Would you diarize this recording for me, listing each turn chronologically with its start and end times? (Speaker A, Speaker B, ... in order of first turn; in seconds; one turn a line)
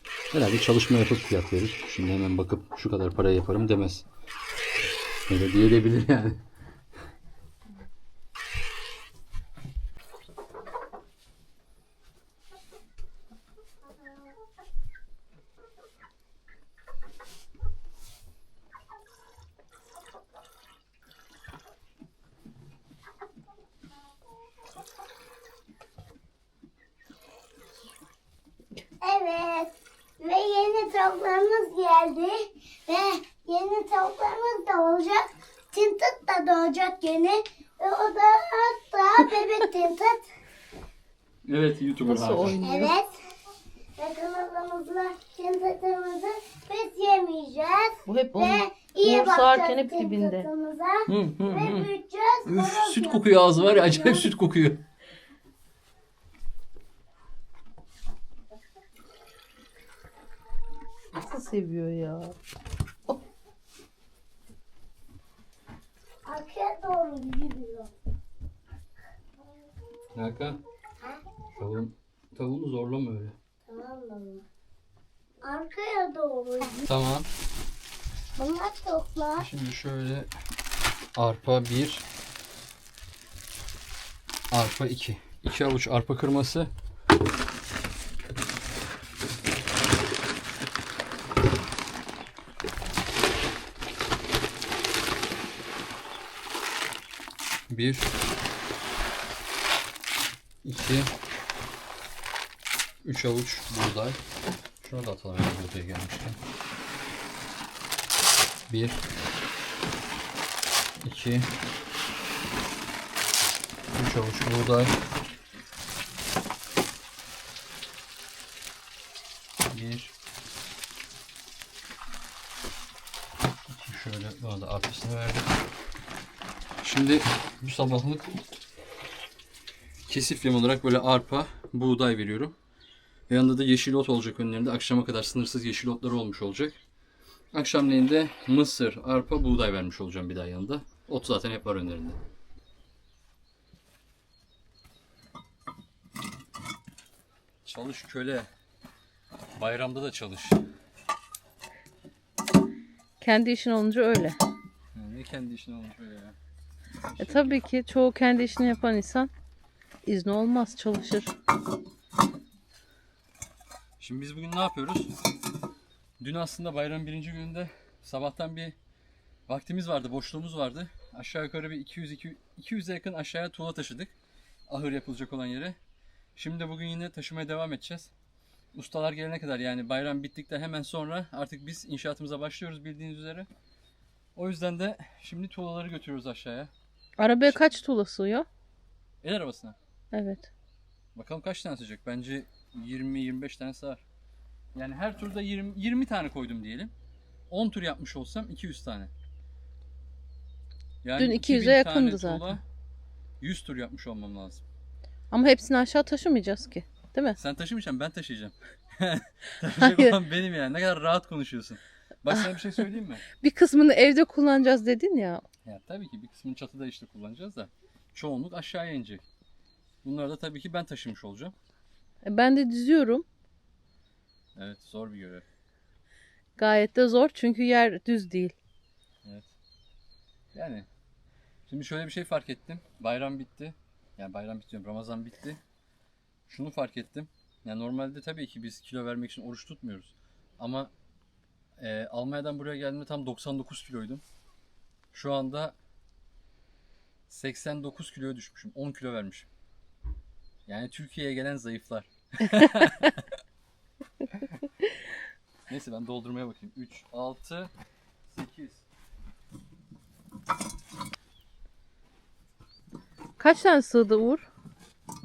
Speaker A: 0.3-4.0
Speaker A: 5.3-6.4
Speaker B: 29.0-40.2
Speaker A: 41.5-42.6
Speaker C: 42.0-42.9
Speaker B: 42.6-43.2
Speaker B: 44.0-54.3
Speaker C: 48.1-50.5
Speaker A: 51.1-51.9
Speaker A: 52.5-54.8
Speaker C: 61.1-62.3
Speaker B: 66.2-67.9
Speaker A: 70.2-70.6
Speaker A: 71.6-73.4
Speaker B: 73.7-74.5
Speaker B: 75.4-76.9
Speaker A: 76.9-77.3
Speaker B: 78.4-79.5
Speaker A: 79.4-80.3
Speaker A: 81.2-82.0
Speaker A: 84.5-86.7
Speaker A: 97.7-98.1
Speaker A: 100.6-101.1
Speaker A: 103.0-104.2
Speaker A: 104.8-106.4
Speaker A: 108.7-109.0
Speaker A: 111.0-111.5
Speaker A: 114.0-115.0
Speaker A: 119.7-120.1
Speaker A: 123.7-125.5
Speaker A: 126.8-128.3
Speaker A: 130.1-132.6
Speaker A: 133.3-136.8
Speaker A: 137.5-142.2
Speaker A: 147.7-148.5
Speaker A: 149.6-150.6
Speaker C: 153.2-154.4
Speaker A: 154.9-156.4
Speaker A: 157.1-157.6
Speaker C: 157.2-159.3
Speaker C: 160.1-161.3
Speaker A: 164.0-165.1
Speaker A: 166.2-168.8
Speaker A: 169.5-174.1
Speaker A: 174.7-175.8
Speaker A: 176.4-178.1
Speaker A: 178.7-183.5
Speaker A: 184.3-186.7
Speaker C: 187.2-188.5
Speaker A: 189.2-189.8
Speaker C: 190.1-190.5
Speaker A: 191.1-194.0
Speaker A: 194.7-196.9
Speaker A: 197.5-199.1
Speaker A: 201.0-202.6
Speaker C: 201.2-202.6
Speaker A: 203.4-204.6
Speaker C: 205.3-207.4
Speaker A: 207.4-213.2
Speaker C: 209.8-210.2
Speaker C: 213.4-215.4
Speaker A: 215.7-219.2
Speaker A: 220.0-221.5
Speaker C: 222.2-223.3
Speaker A: 224.6-225.4
Speaker C: 226.6-228.6
Speaker A: 229.2-229.5
Speaker A: 230.5-230.9
Speaker A: 231.7-235.6
Speaker A: 236.5-240.9
Speaker A: 241.8-244.2
Speaker A: 245.1-245.8
Speaker A: 247.3-249.5
Speaker A: 250.7-253.3
Speaker A: 255.7-257.7
Speaker A: 258.3-258.9
Speaker C: 263.4-264.5